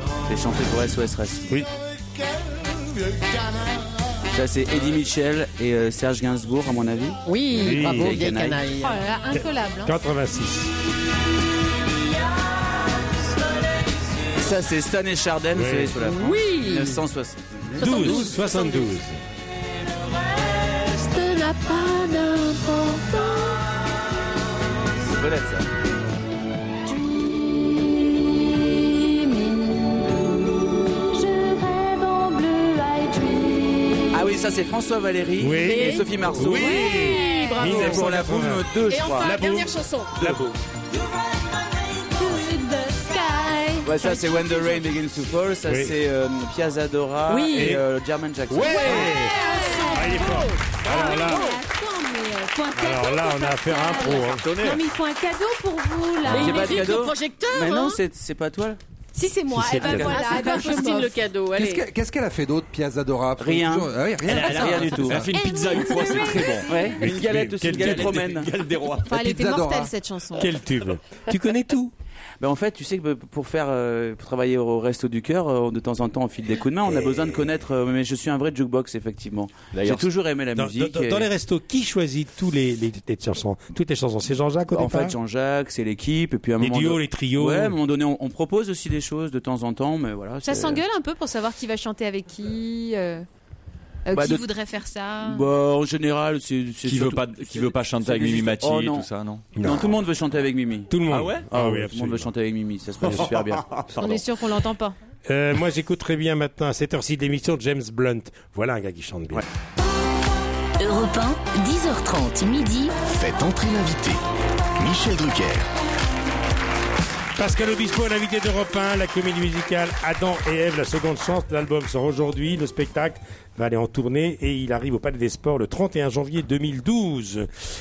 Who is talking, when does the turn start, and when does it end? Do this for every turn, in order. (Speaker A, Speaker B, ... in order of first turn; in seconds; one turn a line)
Speaker A: 0.3-1.6
Speaker A: 4.3-8.6
Speaker B: 7.3-9.0
Speaker C: 7.5-8.2
Speaker D: 8.7-9.9
Speaker C: 9.3-10.7
Speaker A: 14.3-18.3
Speaker C: 15.6-15.9
Speaker B: 16.0-17.0
Speaker B: 17.8-18.9
Speaker C: 17.8-19.2
Speaker B: 21.1-23.2
Speaker A: 25.0-25.7
Speaker D: 32.1-32.5
Speaker A: 34.1-36.9
Speaker C: 35.4-40.4
Speaker B: 35.6-38.2
Speaker D: 36.5-37.6
Speaker A: 37.6-39.4
Speaker B: 38.9-40.3
Speaker A: 40.2-40.5
Speaker D: 42.1-44.8
Speaker A: 43.8-49.1
Speaker C: 45.7-45.9
Speaker B: 47.3-47.8
Speaker C: 47.5-47.8
Speaker C: 48.6-49.4
Speaker B: 48.6-51.6
Speaker D: 48.9-57.0
Speaker C: 50.0-51.4
Speaker C: 52.8-54.5
Speaker E: 54.4-54.8
Speaker B: 56.2-58.0
Speaker A: 56.2-58.8
Speaker D: 59.1-61.1
Speaker C: 59.5-60.1
Speaker A: 59.8-60.2
Speaker B: 59.9-61.8
Speaker F: 61.5-65.3
Speaker A: 63.4-65.2
Speaker E: 64.2-69.1
Speaker D: 65.3-66.9
Speaker A: 66.6-68.5
Speaker C: 67.0-68.3
Speaker D: 69.1-70.5
Speaker F: 69.1-69.9
Speaker C: 70.4-71.9
Speaker A: 72.4-81.3
Speaker E: 79.7-80.1
Speaker C: 80.6-85.2
Speaker A: 84.7-90.8
Speaker C: 86.6-87.8
Speaker D: 90.4-93.2
Speaker D: 94.1-95.4
Speaker A: 94.1-94.5
Speaker A: 95.2-104.2
Speaker E: 96.8-99.4
Speaker C: 99.6-100.0
Speaker C: 100.9-102.3
Speaker E: 101.1-101.5
Speaker D: 104.0-105.0
Speaker C: 105.3-109.5
Speaker G: 110.8-113.0
Speaker H: 113.1-114.2
Speaker H: 114.8-115.7
Speaker C: 117.4-127.5